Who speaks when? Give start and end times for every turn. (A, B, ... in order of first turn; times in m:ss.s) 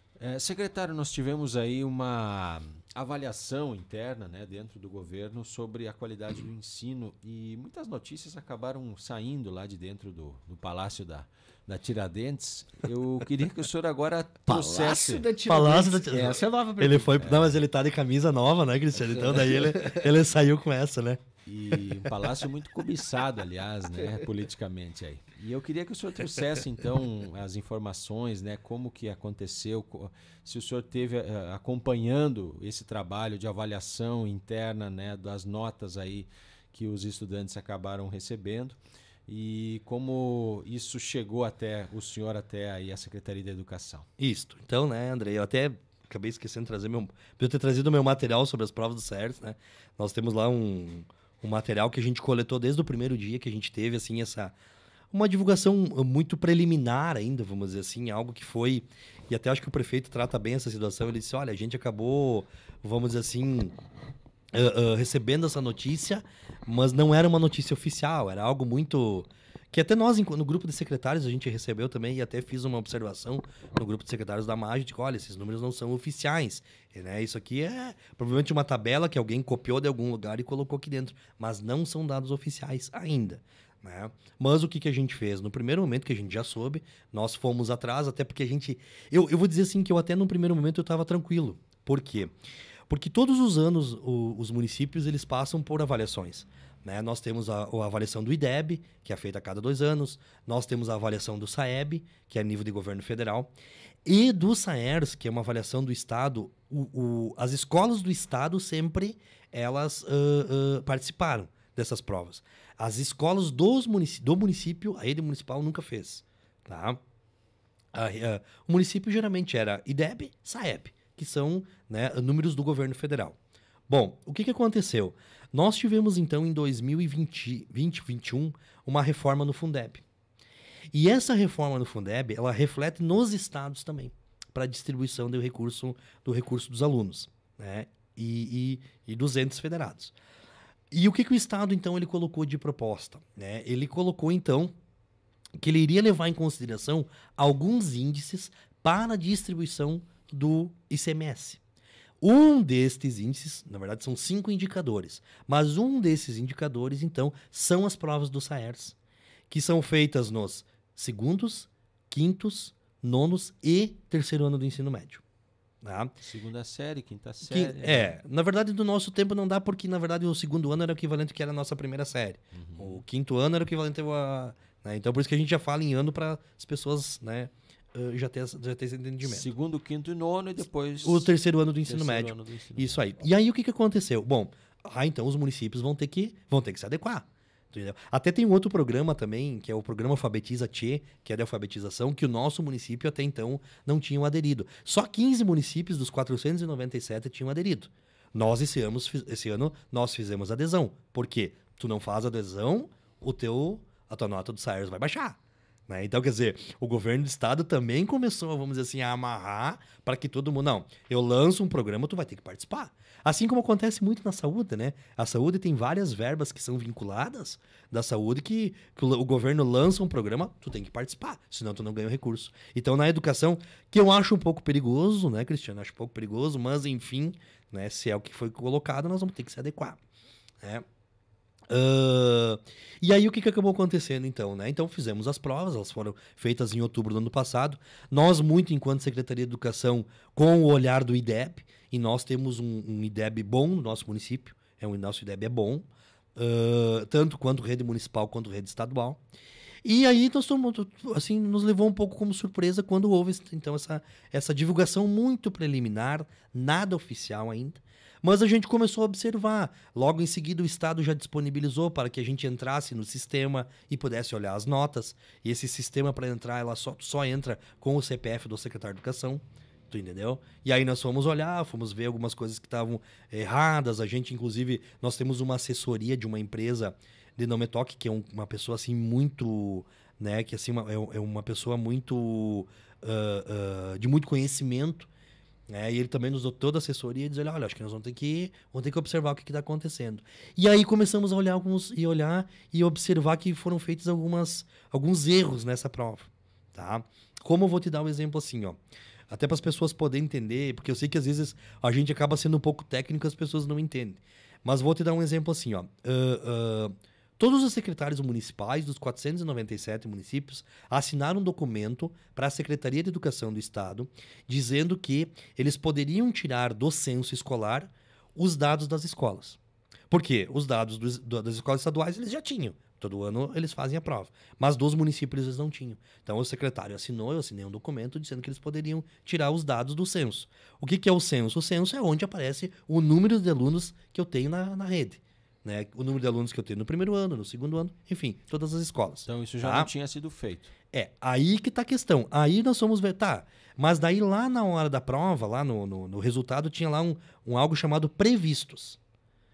0:00.2-0:15.2 A
0:14.5-0:17.2 B
0:15.5-0:21.2 C
0:17.2-0:17.6 A
0:19.1-0:20.0 B
0:21.4-0:44.1 A
0:44.2-0:54.5 C
0:55.1-1:03.7 C
1:04.5-1:32.3 C
1:32.9-1:43.5 C
1:44.0-1:57.0 C
1:57.9-2:03.4 C
2:03.9-2:10.0 C
2:10.9-2:20.1 C
2:20.9-2:24.7 C
2:25.6-2:31.6 C
2:32.2-2:39.0 C
2:39.5-2:45.2 C
2:45.8-2:46.1 C
2:46.2-2:48.2 A
2:47.5-2:59.5 C
2:52.5-2:53.0 A
2:59.2-3:01.3 A
3:01.0-3:25.4 C
3:01.8-3:03.0 A
3:25.9-3:50.0 C
3:51.7-4:09.2 C
4:09.8-4:45.1 C
4:45.7-4:58.8 C
4:59.3-5:19.6 C
5:20.1-5:39.9 C
5:39.2-5:40.7 A
5:40.9-5:49.0 C